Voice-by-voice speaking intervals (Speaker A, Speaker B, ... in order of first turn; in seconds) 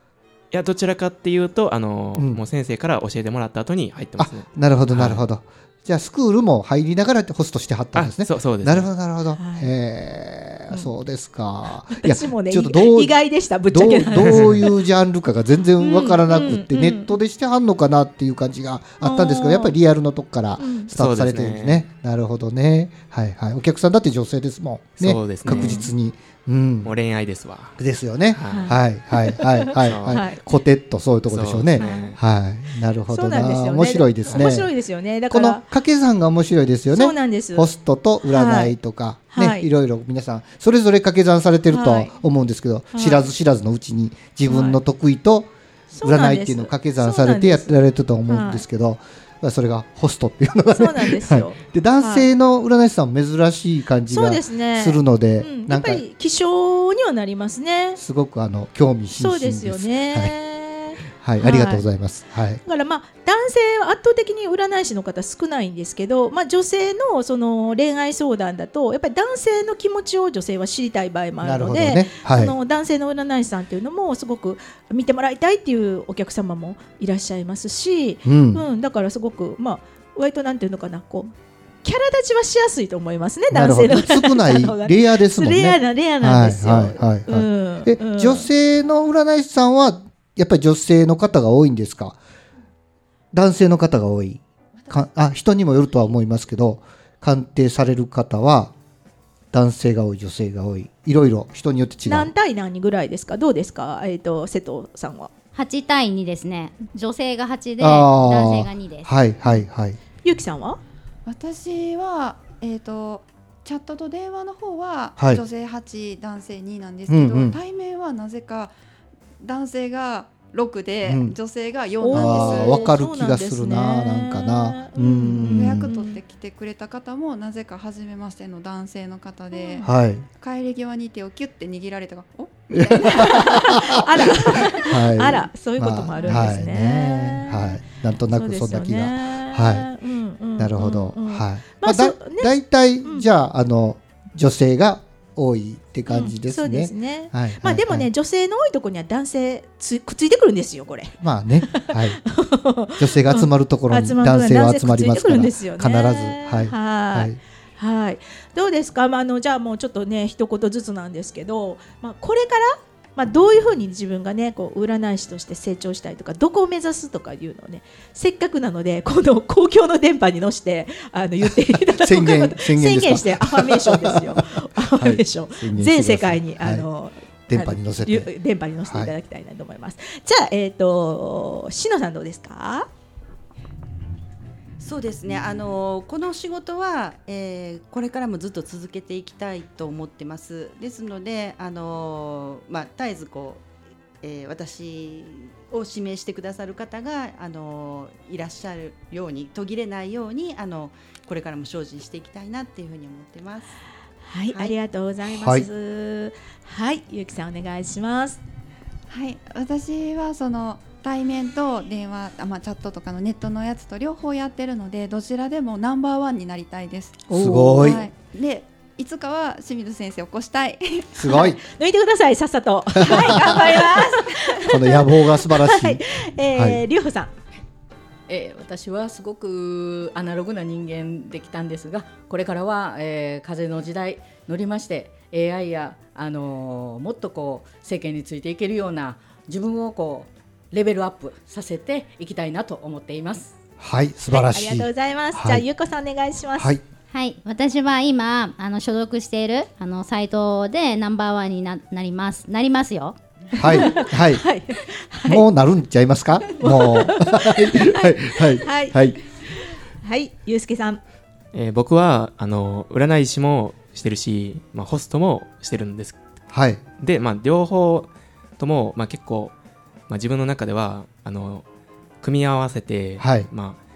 Speaker A: 0.5-5.2, 8.0-8.9, 20.9-21.8, 25.0-25.9, 26.8-27.8, 28.3-28.7, 29.8-30.2, 31.3-32.2, 261.5-266.2, 267.0-269.5, 270.1-271.6, 272.2-273.8
Speaker B: 4.2-13.2, 13.7-26.9, 27.8-34.7, 35.3-45.5, 46.0-56.0, 58.0-60.4, 61.1-62.6, 71.4-72.5, 78.2-78.6, 83.5-92.2, 93.3-98.7, 99.5-102.3, 107.8-110.0, 115.2-115.4, 117.1-117.6, 121.0-121.3, 122.1-125.9, 129.8-130.3, 132.7-139.9, 140.6-148.1, 151.2-152.2, 153.0-157.4, 171.4-176.9, 177.5-178.3, 178.9-179.1, 205.3-205.7, 217.3-218.1, 221.2-221.6, 222.9-223.8, 224.7-226.8, 243.8-245.7, 246.6-246.8, 253.6-254.5, 255.2-259.2, 266.5-266.8, 273.2-273.5
Speaker C: 9.4-9.7, 11.7-14.8, 15.8-17.2, 19.0-19.8, 20.6-20.9, 25.5-25.9, 28.5-30.4, 31.8-32.2, 33.1-35.6, 36.9-37.7, 38.3-38.8, 39.3-39.7, 41.7-42.2, 42.9-43.2, 44.5-44.8, 46.0-48.6, 50.7-52.3, 54.1-58.0, 59.1-61.9, 62.6-81.3, 81.8-88.5, 102.1-105.3, 110.2-110.8, 122.0-126.2, 129.5-129.9, 132.9-137.8, 138.3-143.3, 146.1-182.9, 204.3-208.4, 217.3-218.1, 221.2-227.3, 244.3-246.8, 253.5-255.4, 256.5-259.2, 260.0-261.0
Speaker D: 105.5-109.1, 247.1-253.2
Speaker E: 111.3-118.8, 119.4-122.9, 125.4-133.8, 134.4-134.7, 209.1-221.4
Speaker F: 184.8-193.7, 194.2-203.8
Speaker G: 228.3-243.6